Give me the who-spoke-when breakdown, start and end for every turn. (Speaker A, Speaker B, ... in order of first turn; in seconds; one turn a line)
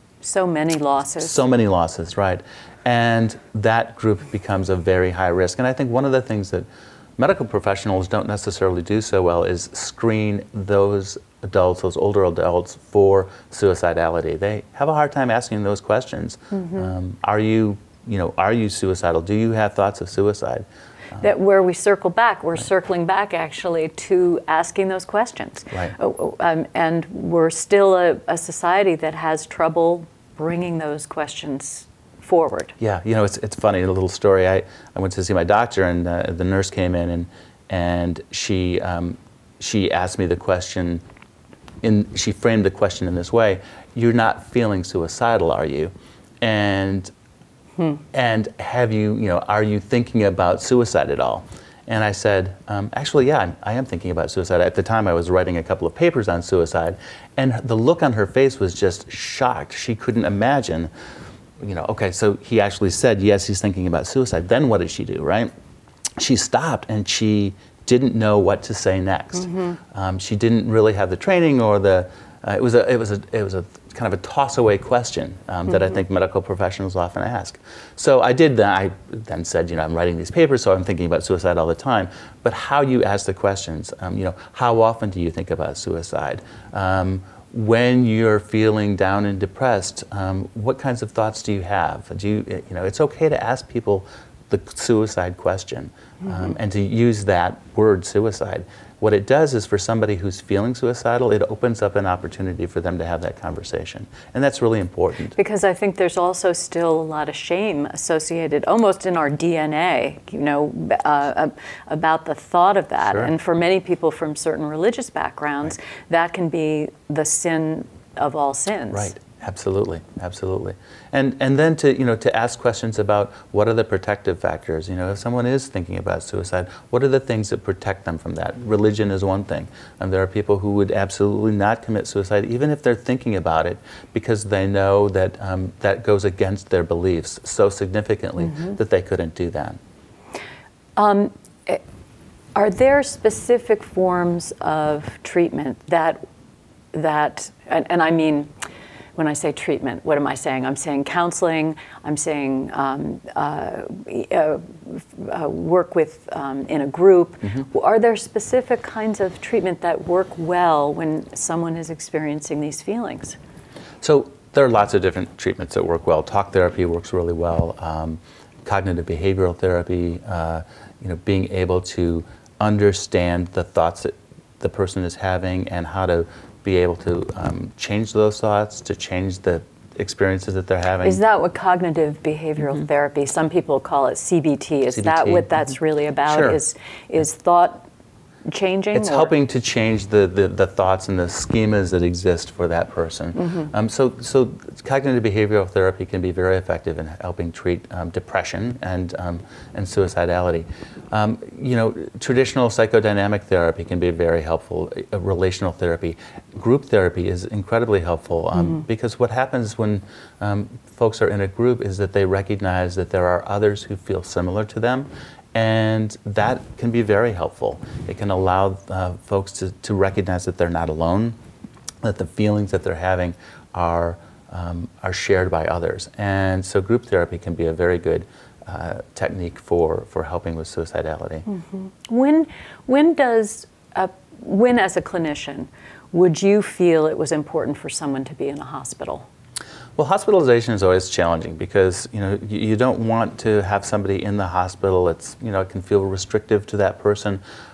Speaker A: 0.2-1.4
Speaker B: 1.2-6.7
Speaker B: 7.2-21.2
Speaker A: 16.5-16.9
Speaker A: 21.2-32.8
Speaker B: 32.8-41.0
Speaker B: 41.8-47.1
Speaker B: 48.1-60.9
Speaker B: 61.6-65.5
Speaker B: 66.2-105.4
Speaker A: 105.4-119.1
Speaker B: 113.0-113.3
Speaker B: 118.9-139.8
Speaker A: 138.5-138.8
Speaker A: 141.0-141.8
Speaker A: 142.6-146.2
Speaker A: 146.9-148.5
Speaker A: 149.2-163.4
Speaker B: 164.0-181.2
Speaker A: 181.0-187.9
Speaker B: 184.9-185.5
Speaker B: 186.3-186.6
Speaker A: 188.5-189.3
Speaker B: 188.9-221.4
Speaker A: 193.4-193.7
Speaker B: 222.0-231.5
Speaker A: 231.5-239.3
Speaker B: 240.0-247.4